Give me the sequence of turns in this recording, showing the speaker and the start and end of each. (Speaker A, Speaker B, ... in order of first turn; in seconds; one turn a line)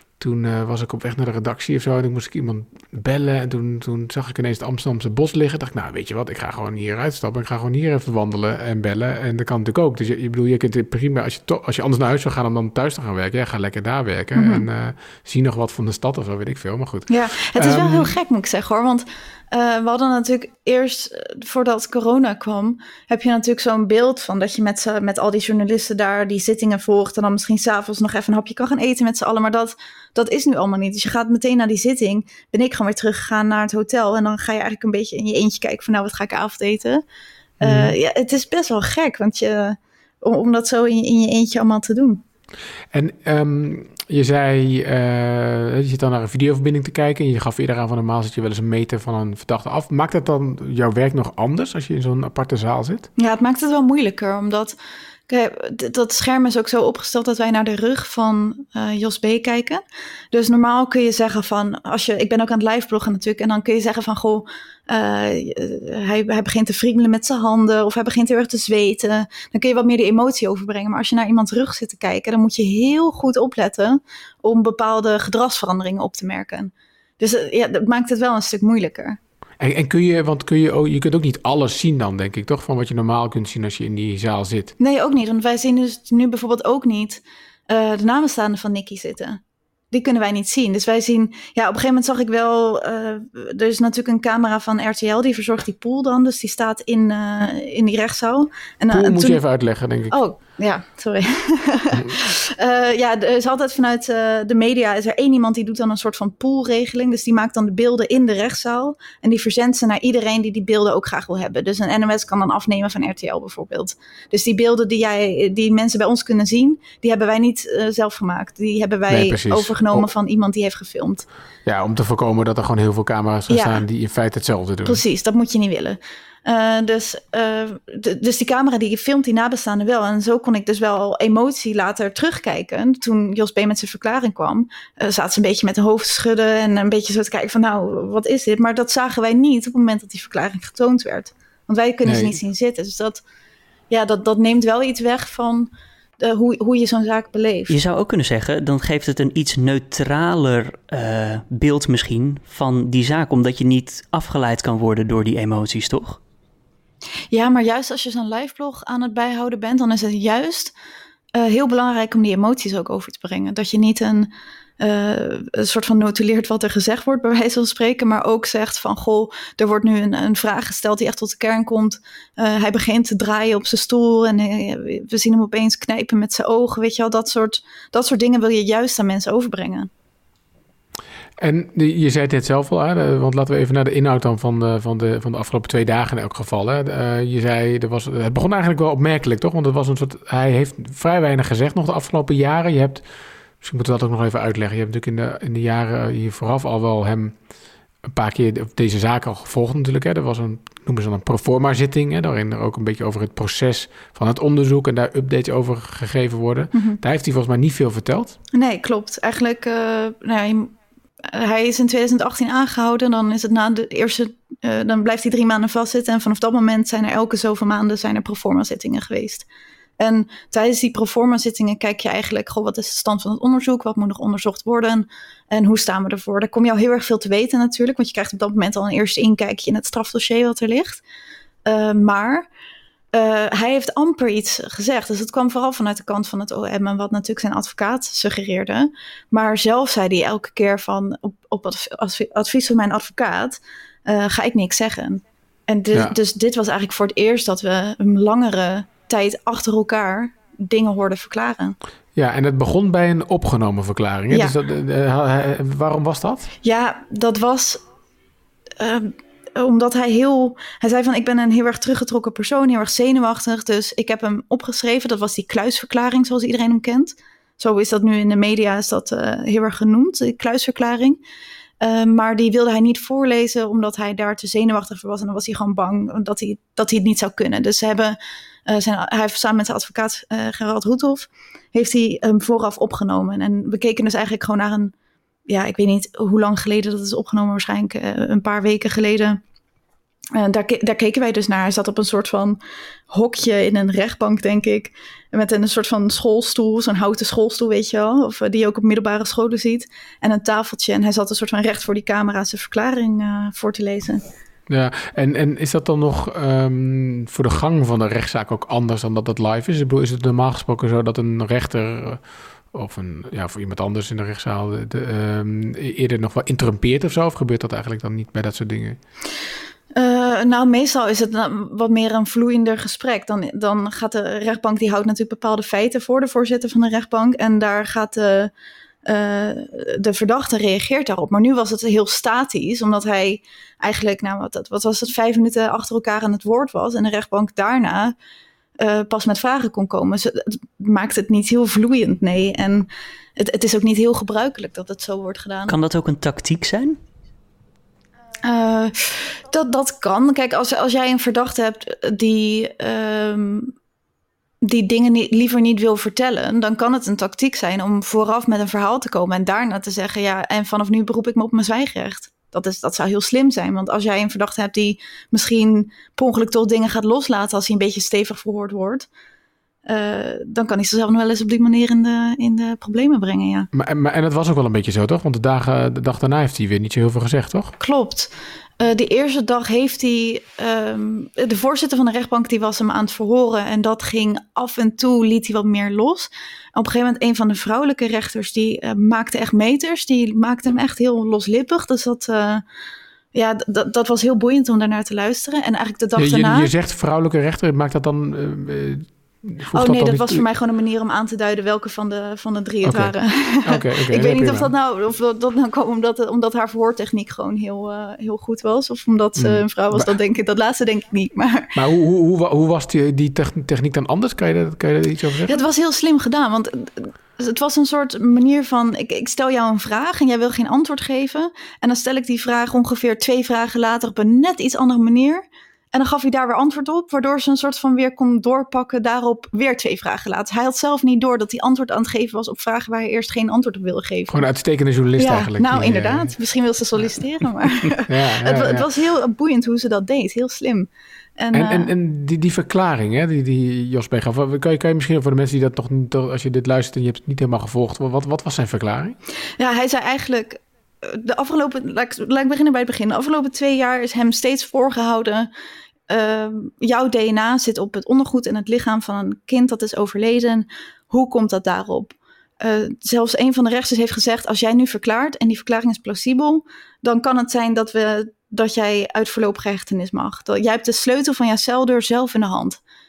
Speaker A: 0.2-18.1
Speaker B: 14.3-14.7
Speaker B: 17.1-37.0
Speaker A: 37.6-38.0
Speaker B: 37.6-42.2
Speaker A: 42.9-53.1
Speaker B: 53.2-54.8
Speaker B: 55.3-79.2
Speaker A: 79.6-84.7
Speaker B: 84.8-89.4
Speaker B: 89.9-99.4
Speaker A: 98.9-100.2
Speaker B: 100.1-121.3
Speaker A: 101.9-102.2
Speaker A: 119.1-120.1
Speaker A: 121.7-125.0
Speaker B: 123.5-123.8
Speaker B: 124.8-143.2
Speaker A: 142.0-142.4
Speaker B: 143.9-147.8
Speaker C: 147.7-156.2
Speaker B: 157.3-160.7
Speaker B: 161.3-179.9
Speaker A: 181.4-193.0
Speaker A: 193.6-197.3
Speaker A: 198.1-208.3
Speaker B: 206.7-207.0
Speaker B: 208.5-219.5
Speaker B: 220.0-231.0
Speaker B: 231.6-232.5
Speaker B: 233.1-251.8
Speaker A: 252.2-256.5
Speaker B: 256.6-257.8
Speaker B: 258.8-271.2
Speaker B: 271.8-284.9
Speaker B: 285.5-289.4
Speaker B: 290.3-292.6
Speaker B: 293.1-304.2
Speaker A: 304.7-312.2
Speaker A: 312.7-319.0
Speaker B: 320.0-328.5
Speaker B: 329.1-338.1
Speaker B: 338.8-345.8
Speaker C: 345.7-347.0
Speaker B: 348.4-353.7
Speaker B: 354.6-369.1
Speaker B: 369.9-373.7
Speaker A: 373.7-377.8
Speaker B: 377.8-392.6
Speaker B: 393.3-396.7
Speaker A: 396.1-400.4
Speaker B: 399.7-411.8
Speaker A: 402.9-403.1
Speaker A: 403.6-404.7
Speaker A: 409.4-410.1
Speaker A: 411.8-415.6
Speaker B: 415.5-434.4
Speaker A: 434.3-436.4
Speaker B: 435.2-441.9
Speaker A: 438.0-438.9
Speaker A: 441.5-449.1
Speaker B: 449.6-455.5
Speaker B: 456.1-472.8